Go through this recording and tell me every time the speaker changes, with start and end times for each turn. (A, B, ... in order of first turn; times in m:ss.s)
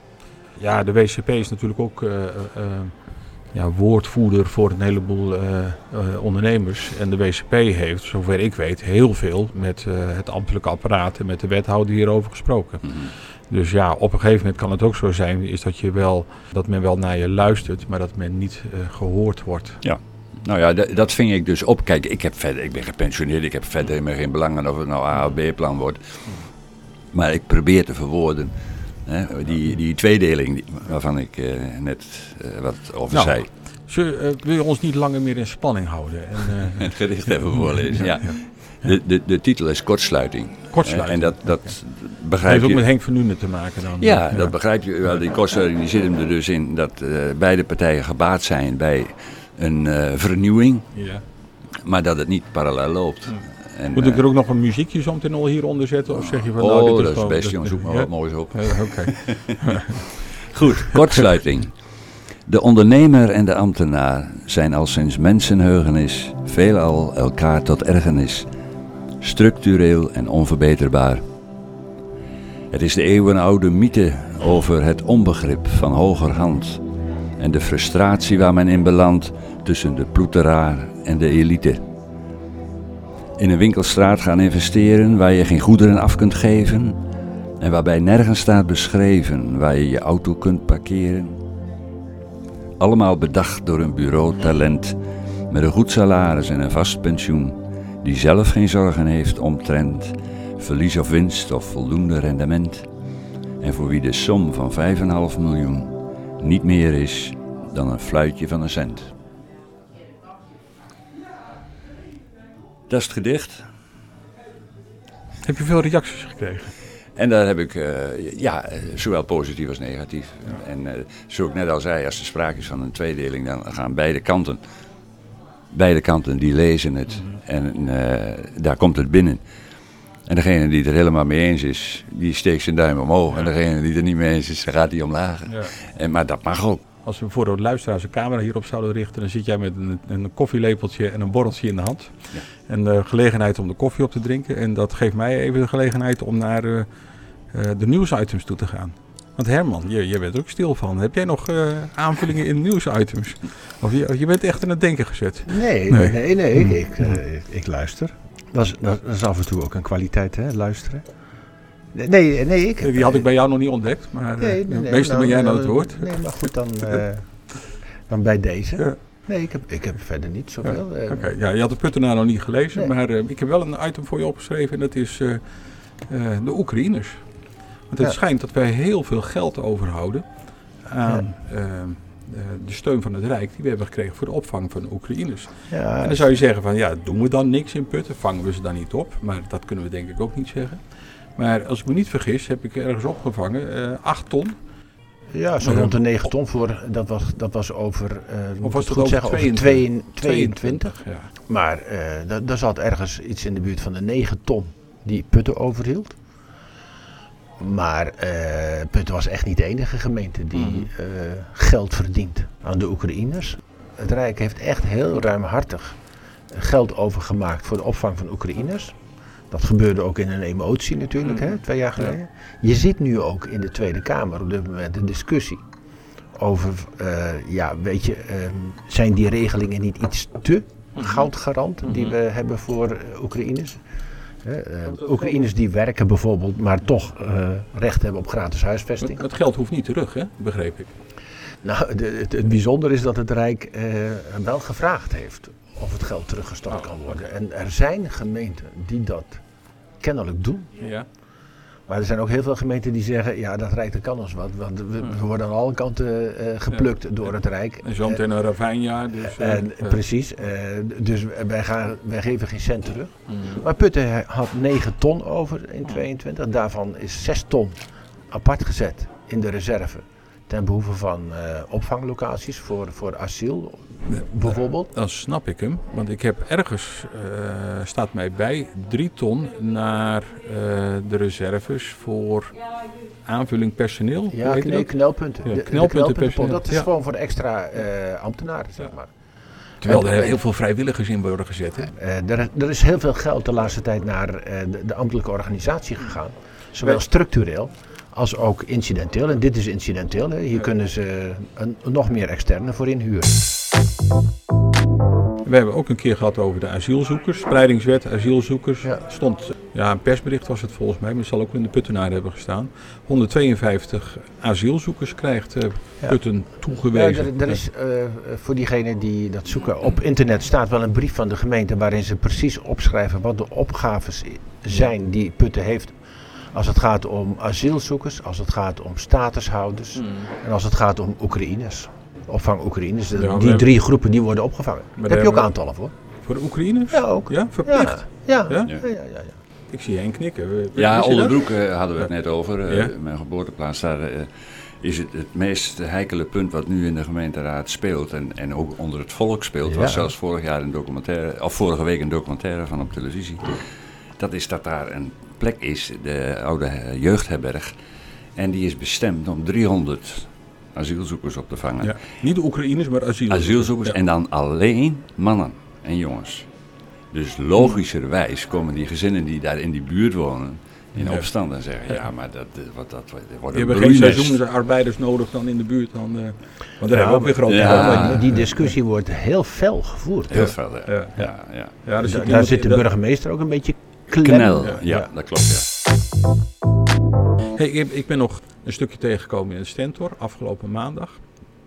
0:00.6-0:19.8 A
0:12.8-0:13.1 B
0:19.8-0:26.2 B
0:27.1-0:33.5 B
0:33.1-0:38.4 A
0:36.8-0:42.8 B
0:40.7-0:41.8 A
0:42.4-0:44.6 A
0:44.0-0:51.0 B
0:50.9-0:51.2 A
0:51.8-0:54.2 B
0:53.3-1:00.1 A
0:56.2-0:59.8 B
1:00.4-1:01.8 B
1:02.4-1:08.5 B
1:09.2-1:11.2 B
1:12.7-1:16.8 B
1:17.4-1:21.8 B
1:23.4-1:27.0 B
1:27.6-1:31.4 B
1:32.8-1:35.0 B
1:35.5-1:42.9 B
1:43.6-1:49.1 B
1:52.9-1:53.7 B
1:55.4-1:56.7 A
1:57.2-2:04.6 B
2:05.7-2:09.4 B
2:10.2-2:16.8 B
2:15.5-2:15.7 A
2:17.0-2:26.9 A
2:27.5-2:36.8 A
2:35.5-2:41.1 C
2:41.9-2:43.2 C
2:42.8-2:47.0 A
2:44.4-2:51.3 C
2:50.6-3:10.8 A
3:05.7-3:06.2 C
3:11.4-3:14.6 A
3:15.3-3:26.2 C
3:15.6-3:15.9 A
3:18.6-3:21.3 A
3:27.6-3:45.6 C
3:30.5-3:30.9 A
3:46.3-3:53.8 C
3:51.8-3:52.1 A
3:54.4-3:59.2 C
3:59.0-4:00.9 A
4:01.6-4:09.4 C
4:10.0-4:10.7 C
4:10.8-4:11.0 A
4:11.9-4:18.2 C
4:16.7-4:17.3 A
4:17.8-4:20.0 A
4:19.2-4:34.9 C
4:23.3-4:23.6 A
4:34.1-4:42.6 A
4:43.2-4:46.9 A
4:44.3-4:49.1 C
4:49.8-4:50.4 C
4:49.8-4:51.9 A
4:51.9-5:03.5 C
5:05.4-5:17.6 A
5:16.8-5:26.0 C
5:26.5-5:35.9 C
5:30.0-5:30.3 A
5:33.1-5:33.7 A
5:35.0-5:35.5 A
5:36.2-5:38.7 A
5:36.9-5:39.3 C
5:39.7-5:41.4 A
5:40.8-5:57.7 B
5:42.6-5:42.9 A
5:49.7-5:50.1 C
5:58.4-6:02.0 B
6:01.8-6:04.0 A
6:03.3-6:06.5 B
6:07.1-6:14.4 B
6:11.0-6:11.3 A
6:13.5-6:18.7 A
6:16.8-6:20.5 C
6:17.4-6:18.2 B
6:20.3-6:21.8 B
6:20.9-6:22.8 A
6:22.0-6:24.8 C
6:24.2-6:25.6 B
6:24.6-6:25.0 A
6:27.5-6:31.2 A